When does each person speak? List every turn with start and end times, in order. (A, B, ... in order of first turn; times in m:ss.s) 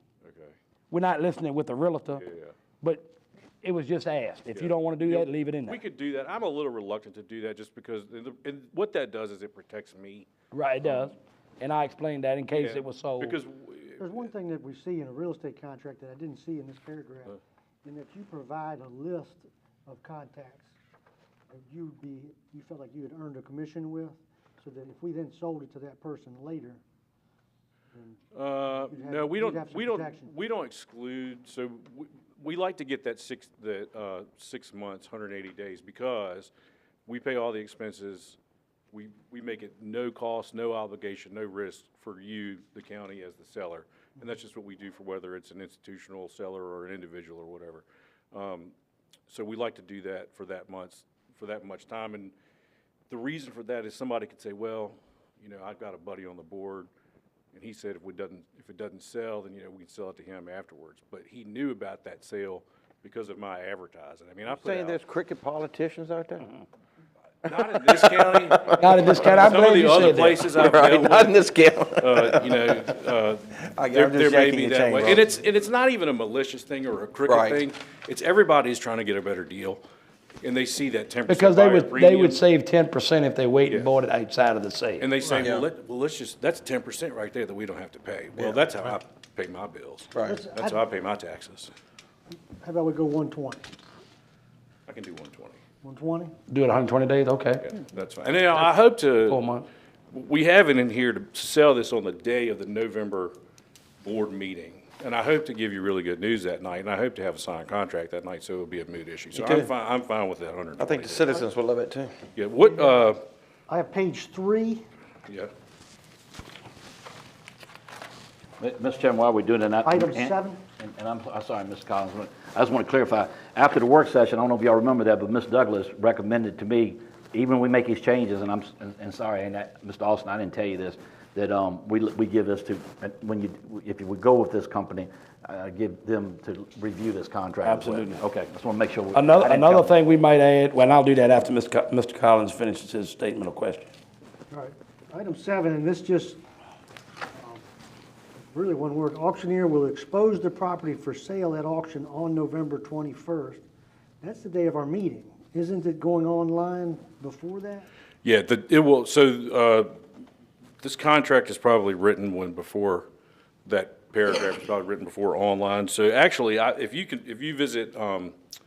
0:00.2-0:00.5 A
0:00.9-0:02.2 B
0:02.1-0:02.5 A
0:02.8-0:05.8 B
0:04.5-0:10.3 A
0:10.5-0:13.4 B
0:12.6-0:14.3 A
0:14.0-0:20.7 C
0:21.5-0:26.8 C
0:28.3-0:36.5 A
0:28.8-0:30.3 C
0:37.0-0:38.4 A
0:38.9-0:48.7 A
0:49.3-0:52.3 A
0:53.1-0:56.9 A
0:57.5-1:05.0 A
1:04.5-1:06.5 D
1:07.4-1:11.4 A
1:07.5-1:12.9 D
1:08.8-1:10.4 B
1:12.0-1:19.8 A
1:13.7-1:15.3 D
1:17.2-1:17.6 D
1:20.4-1:22.4 A
1:21.3-1:25.1 B
1:25.0-1:31.7 A
1:25.3-1:25.7 D
1:28.4-1:28.6 D
1:30.1-1:30.4 D
1:30.2-1:30.8 C
1:32.6-1:33.6 C
1:34.9-1:35.6 A
1:35.8-1:36.3 C
1:36.5-1:37.7 B
1:37.7-1:39.4 A
1:39.3-1:39.7 B
1:40.1-1:43.3 A
1:44.0-1:51.4 A
1:49.3-1:49.7 D
1:50.8-1:52.1 D
1:52.3-1:53.2 A
1:52.8-1:53.1 C
1:53.7-1:54.8 C
1:58.6-2:19.9 E
1:59.8-2:00.6 C
2:17.6-2:18.2 B
2:19.1-2:23.9 B
2:24.5-2:26.4 C
2:28.5-2:33.6 C
2:34.2-2:37.9 C
2:38.2-2:39.9 A
2:40.8-2:43.1 A
2:43.6-2:48.3 A